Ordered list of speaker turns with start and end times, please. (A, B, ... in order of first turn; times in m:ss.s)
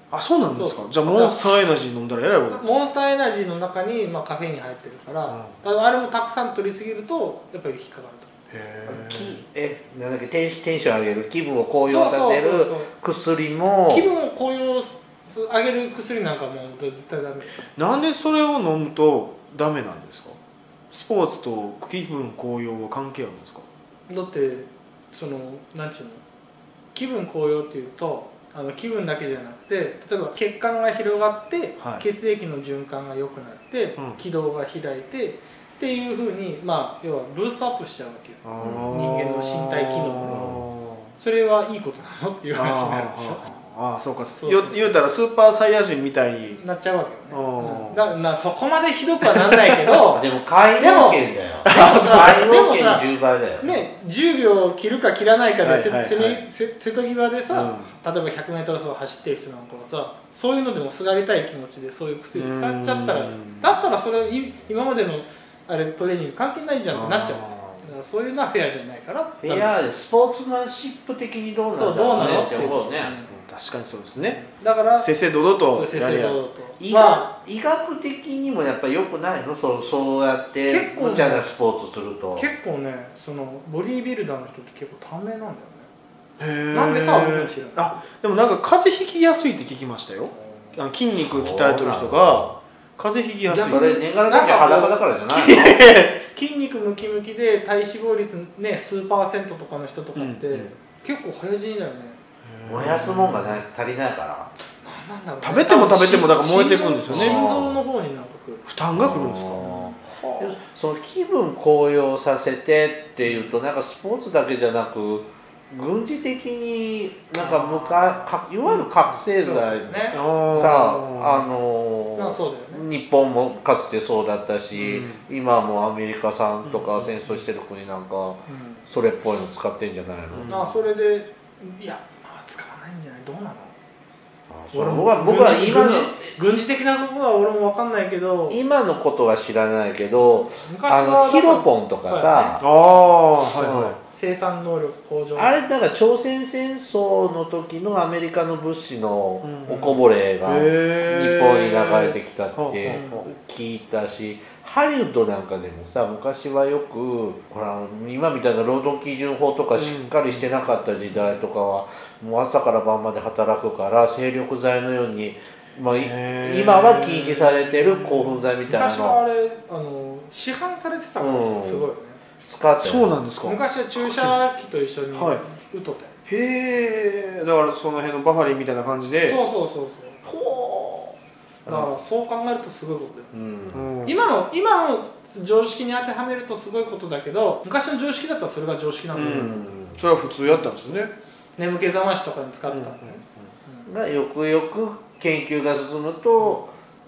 0:00.1-0:02.6 A
0:00.5-0:01.4 B
0:02.5-0:08.3 B
0:05.3-0:05.6 A
0:08.5-0:09.4 A
0:08.9-0:14.1 C
0:11.9-0:12.9 B
0:13.9-0:17.6 B
0:17.8-0:20.4 A
0:20.9-0:23.6 A
0:24.1-0:26.2 B
0:26.9-0:40.6 B
0:31.8-0:32.0 A
0:38.4-0:41.1 A
0:38.6-0:38.9 C
0:41.2-0:43.5 B
0:42.5-0:46.6 A
0:44.4-0:45.0 B
0:46.5-0:50.2 B
0:47.3-0:48.1 A
0:50.1-0:53.7 C
0:50.8-0:53.1 B
0:51.6-0:52.3 A
0:53.6-1:09.8 B
0:55.6-0:56.4 A
0:57.5-0:57.9 A
1:02.3-1:03.8 A
1:06.9-1:07.8 A
1:09.4-1:13.1 C
1:11.7-1:13.3 B
1:12.2-1:12.6 A
1:13.3-1:14.4 A
1:14.2-1:15.1 B
1:15.0-1:16.4 A
1:15.7-1:17.3 B
1:16.8-1:22.5 C
1:20.6-1:21.5 B
1:22.4-1:25.9 B
1:26.4-1:34.0 A
1:26.7-1:28.0 B
1:31.1-1:32.6 C
1:33.5-1:35.0 B
1:33.6-1:35.7 C
1:35.3-1:36.2 A
1:36.2-1:42.2 B
1:40.1-1:40.7 A
1:42.4-1:43.6 A
1:42.7-1:44.5 C
1:44.8-1:48.6 B
1:45.4-1:47.4 A
1:47.1-1:47.8 C
1:48.6-1:50.6 A
1:48.9-1:49.8 C
1:49.6-1:50.0 B
1:50.4-2:10.6 C
1:57.4-1:58.3 B
1:59.4-2:00.2 B
2:00.1-2:01.5 A
2:02.2-2:02.8 B
2:04.7-2:05.2 A
2:06.6-2:07.4 A
2:08.5-2:08.8 B
2:10.3-2:10.8 A
2:10.5-2:13.7 B
2:14.5-2:16.6 C
2:14.7-2:18.6 B
2:18.5-2:22.6 C
2:20.2-2:22.7 B
2:22.6-2:24.0 A
2:23.6-2:24.0 C
2:24.1-2:25.6 B
2:25.4-2:49.2 C
2:29.4-2:33.1 A
2:32.8-2:33.3 B
2:39.7-2:41.4 A
2:45.9-2:48.4 A
2:48.7-2:52.2 B
2:51.2-2:51.9 C
2:52.4-2:53.2 C
2:52.8-2:54.4 A
2:53.4-2:56.1 B
2:55.1-2:55.4 A
2:56.3-2:59.4 A
2:59.2-3:00.2 B
3:00.2-3:01.2 A
3:01.7-3:03.3 B
3:03.3-3:03.8 C
3:03.7-3:04.3 A
3:04.0-3:09.6 B
3:09.1-3:11.1 A
3:09.1-3:10.0 C
3:10.4-3:11.0 B
3:11.6-3:13.9 B
3:12.7-3:13.3 A
3:13.9-3:16.7 C